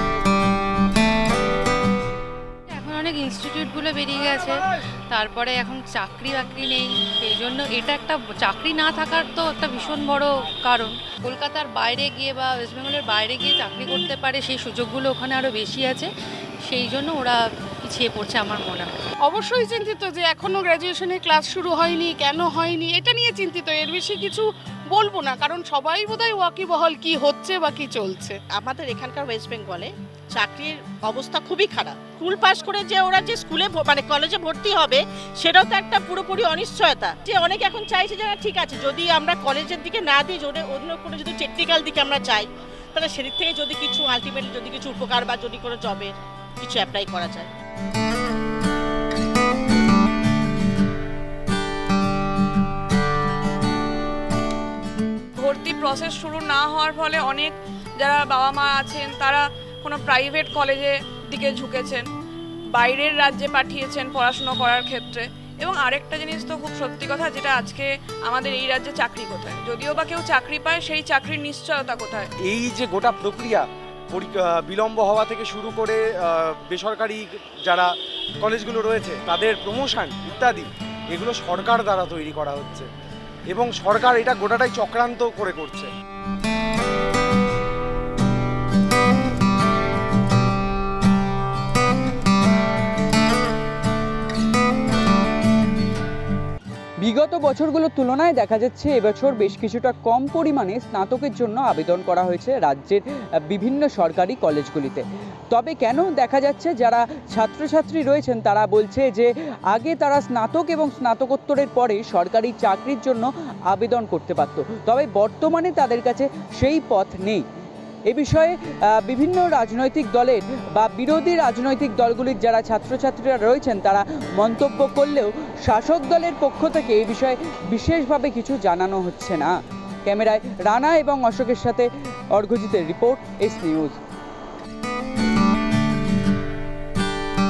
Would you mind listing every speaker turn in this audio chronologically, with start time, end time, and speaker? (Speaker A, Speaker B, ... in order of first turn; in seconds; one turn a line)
Speaker A: 2.7-16.1
Speaker A: 16.6-18.9
Speaker B: 19.2-28.4
Speaker C: 28.5-47.5
Speaker D: 55.4-62.1
Speaker D: 62.8-72.3
Speaker E: 72.5-77.9
Speaker E: 78.4-82.9
Speaker E: 83.5-85.9
Speaker F: 97.0-117.5
Speaker F: 118.1-129.5
Speaker F: 130.1-134.0